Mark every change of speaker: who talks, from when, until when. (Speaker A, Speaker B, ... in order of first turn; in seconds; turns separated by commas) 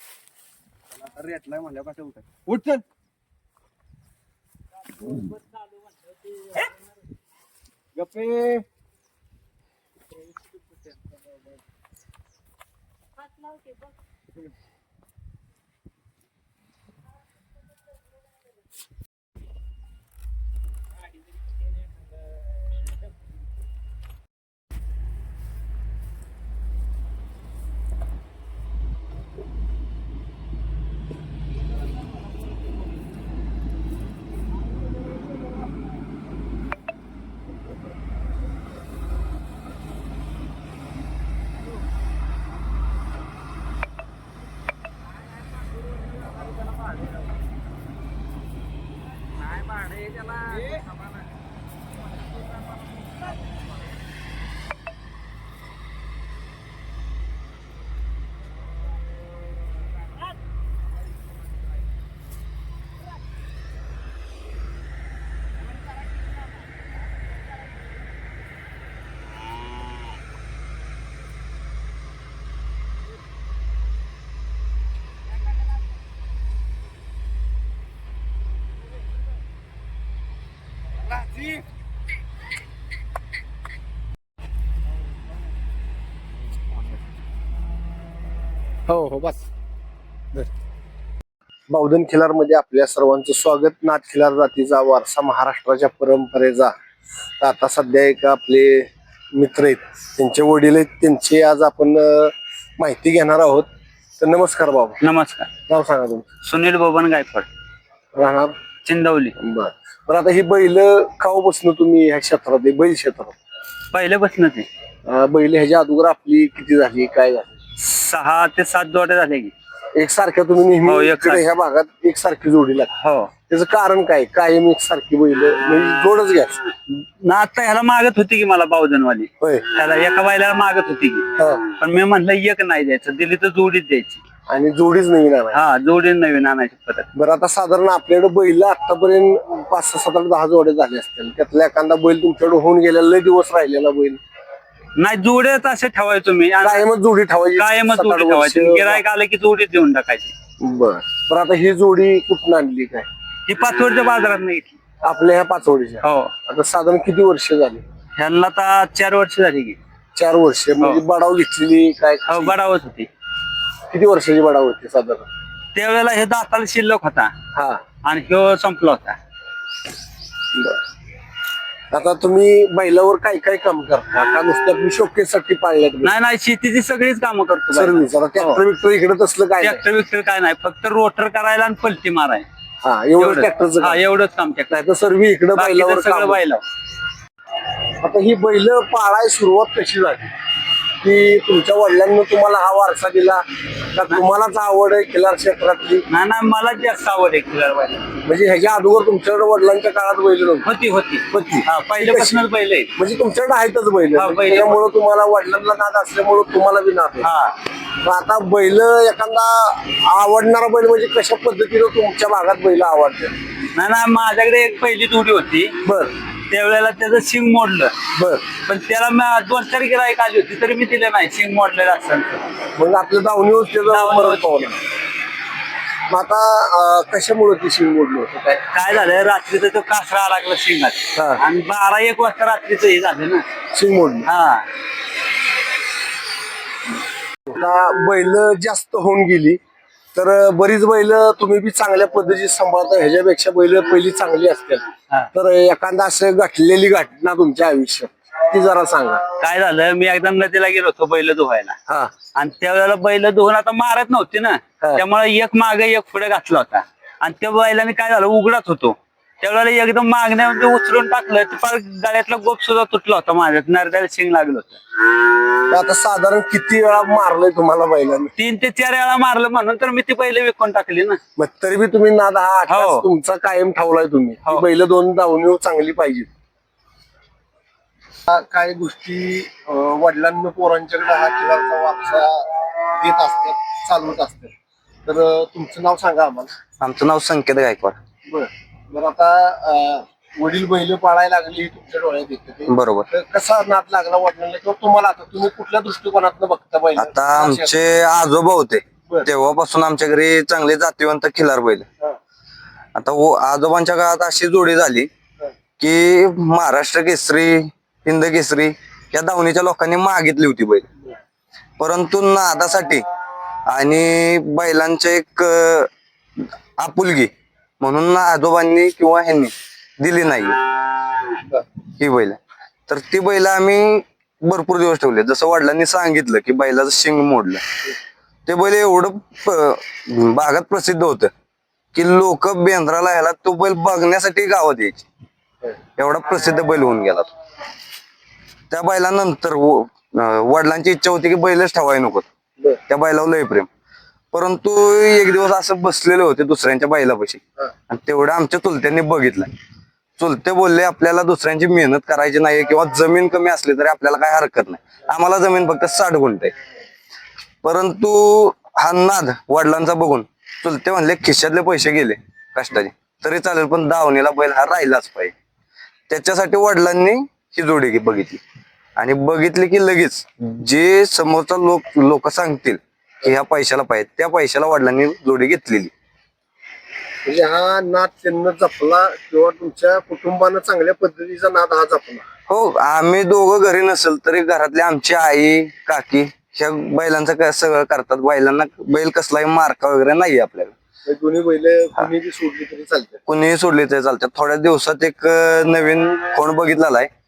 Speaker A: 1.0-2.5, Speaker B: 2.5-2.8, Speaker C: 5.2-6.7, Speaker B: 8.0-8.6, Speaker B: 88.9-89.4, Speaker B: 91.7-96.7, Speaker B: 97.4-103.7, Speaker B: 104.2-105.0, Speaker C: 105.0-105.5, Speaker B: 105.7-106.3, Speaker C: 106.4-107.5, Speaker B: 108.2-108.5, Speaker C: 108.8-109.3, Speaker B: 109.4-113.3, Speaker C: 113.9-114.7, Speaker B: 115.1-117.5, Speaker C: 117.8-119.5, Speaker B: 120.0-122.9, Speaker C: 120.8-121.4, Speaker C: 123.0-123.3, Speaker B: 123.5-126.6, Speaker C: 126.9-134.2, Speaker B: 134.5-135.6, Speaker C: 135.5-137.1, Speaker B: 137.2-144.2, Speaker C: 145.0-146.9, Speaker B: 146.6-149.0, Speaker C: 147.6-150.3, Speaker B: 150.6-153.1, Speaker C: 153.5-154.8, Speaker B: 155.0-157.8, Speaker C: 156.0-156.3, Speaker C: 158.2-159.8, Speaker B: 160.2-162.6, Speaker C: 162.3-163.1, Speaker B: 163.9-165.2, Speaker C: 165.8-167.3, Speaker B: 167.6-167.8, Speaker C: 168.0-169.2, Speaker B: 171.9-176.1, Speaker C: 176.0-178.6, Speaker B: 177.7-179.8, Speaker C: 179.6-182.4, Speaker B: 182.8-184.0, Speaker C: 183.2-184.8, Speaker B: 184.7-186.4, Speaker C: 185.6-186.6, Speaker B: 188.0-190.3, Speaker B: 191.0-193.4, Speaker B: 193.9-196.0, Speaker C: 196.1-198.0, Speaker B: 198.3-200.7, Speaker C: 200.6-202.9, Speaker B: 201.3-202.4, Speaker B: 203.0-207.3, Speaker C: 204.2-204.8, Speaker C: 207.2-207.6, Speaker B: 208.0-213.3, Speaker C: 213.7-215.8, Speaker B: 215.8-216.1, Speaker C: 216.5-217.9, Speaker B: 218.2-218.4, Speaker C: 218.6-222.4, Speaker B: 222.8-224.8, Speaker C: 223.9-224.7, Speaker B: 226.1-228.6, Speaker C: 228.7-233.4, Speaker B: 231.2-231.4, Speaker B: 233.7-234.3, Speaker C: 234.2-234.7, Speaker B: 237.5-239.6, Speaker B: 240.2-249.2, Speaker C: 249.4-251.8, Speaker C: 252.3-264.8, Speaker B: 265.7-268.3, Speaker C: 268.4-271.2, Speaker B: 271.4-276.3, Speaker C: 272.7-273.1, Speaker B: 278.3-284.5, Speaker B: 285.1-286.5, Speaker A: 286.8-288.0, Speaker B: 288.3-297.8, Speaker A: 292.7-293.1, Speaker A: 297.0-301.9, Speaker A: 303.0-305.1, Speaker A: 305.8-310.9, Speaker A: 311.8-313.1, Speaker A: 313.7-315.9, Speaker A: 316.8-320.6, Speaker A: 322.0-327.6, Speaker A: 328.5-331.3, Speaker A: 331.9-335.1, Speaker A: 336.0-337.3, Speaker A: 338.7-342.3, Speaker A: 342.9-343.7, Speaker A: 344.3-349.5, Speaker A: 350.2-356.5, Speaker A: 357.6-365.3, Speaker A: 366.1-368.4, Speaker A: 369.0-375.9, Speaker B: 377.2-382.3, Speaker A: 382.5-390.7, Speaker B: 391.1-393.2, Speaker A: 393.3-397.1